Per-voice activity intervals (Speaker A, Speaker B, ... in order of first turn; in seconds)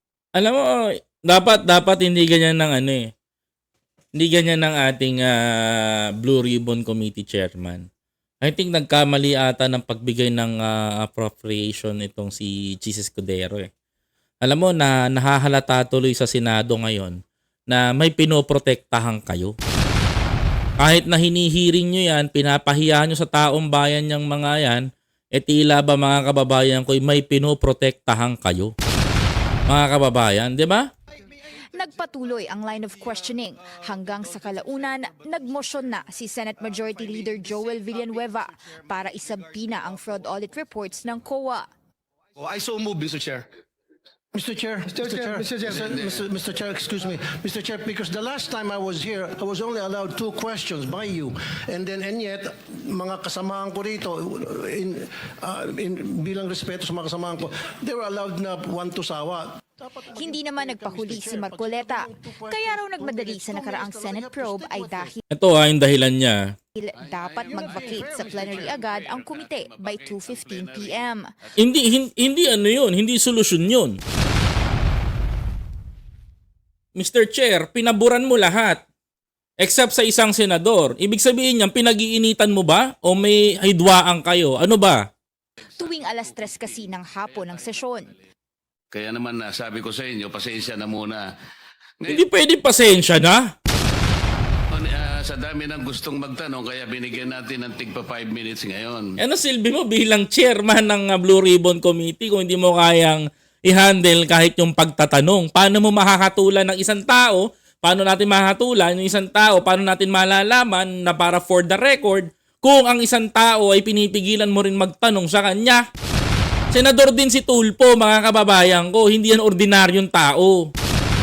Speaker A: 0.3-3.1, 4.2-7.8, 8.4-13.7, 14.4-17.2, 17.7-19.5, 20.8-28.7, 29.7-30.9, 65.3-66.5, 71.6-74.0, 77.0-78.8, 79.6-85.0, 92.1-93.5, 99.2-115.8, 116.7-120.7
Speaker B: 31.7-41.7, 60.2-65.2, 66.7-71.2, 85.8-88.1
Speaker C: 37.4-38.8, 39.8-40.2, 42.4-43.5, 44.9-45.9
Speaker D: 44.3-65.1, 67.5-68.9
Speaker E: 45.7-46.2, 67.0-71.1, 85.9-86.6, 88.9-91.3, 94.7-99.1